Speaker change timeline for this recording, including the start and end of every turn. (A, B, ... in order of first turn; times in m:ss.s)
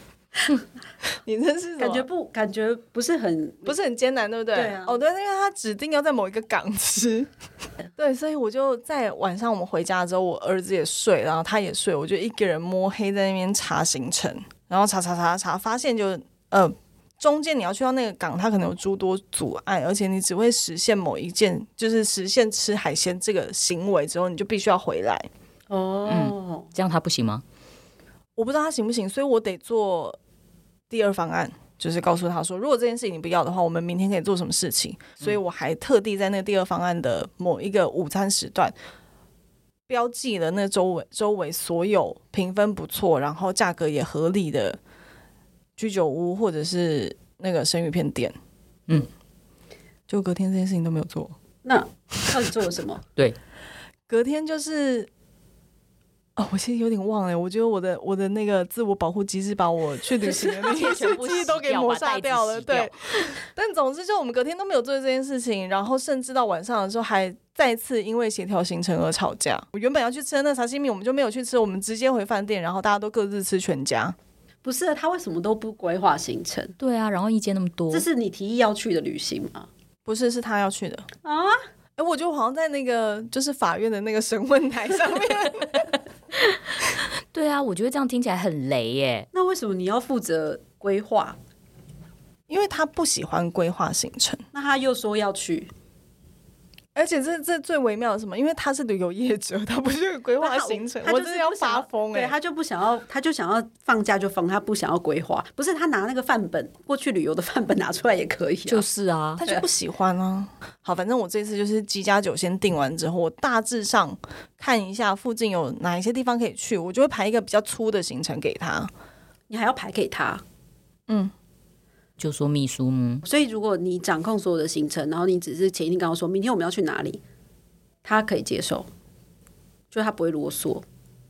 0:01.2-0:02.0 A
0:01.8-0:03.7 B
0:03.6-0:07.3 A
0:04.5-0:05.0 B
0:08.0-0:25.3 A
0:25.7-0:26.7 B
0:26.1-0:27.4 C
0:28.4-0:30.2 A
0:30.9-0:38.7 A
0:39.9-0:44.8 A
0:45.8-0:48.3 A
0:50.1-0:51.3 A
0:51.6-0:53.0 B
0:54.1-0:55.1 A
0:56.4-1:14.2 A
1:00.2-1:03.3 C
1:14.6-1:16.8 B
1:16.8-1:18.0 C
1:17.9-1:19.7 B
1:20.0-1:21.0 A
1:21.2-1:21.6 B
1:22.0-1:25.9 A
1:26.3-1:26.7 C
1:27.3-1:29.3 C
1:29.3-1:31.4 B
1:32.5-1:34.4 A
1:34.5-1:35.7 B
1:36.9-1:42.3 A
1:40.4-1:48.8 B
1:48.7-1:49.4 C
1:49.4-1:58.9 A
1:59.5-2:00.4 B
2:01.1-2:01.3 A
2:02.2-2:03.2 C
2:03.2-2:07.2 B
2:08.0-2:08.9 B
2:09.9-2:10.8 B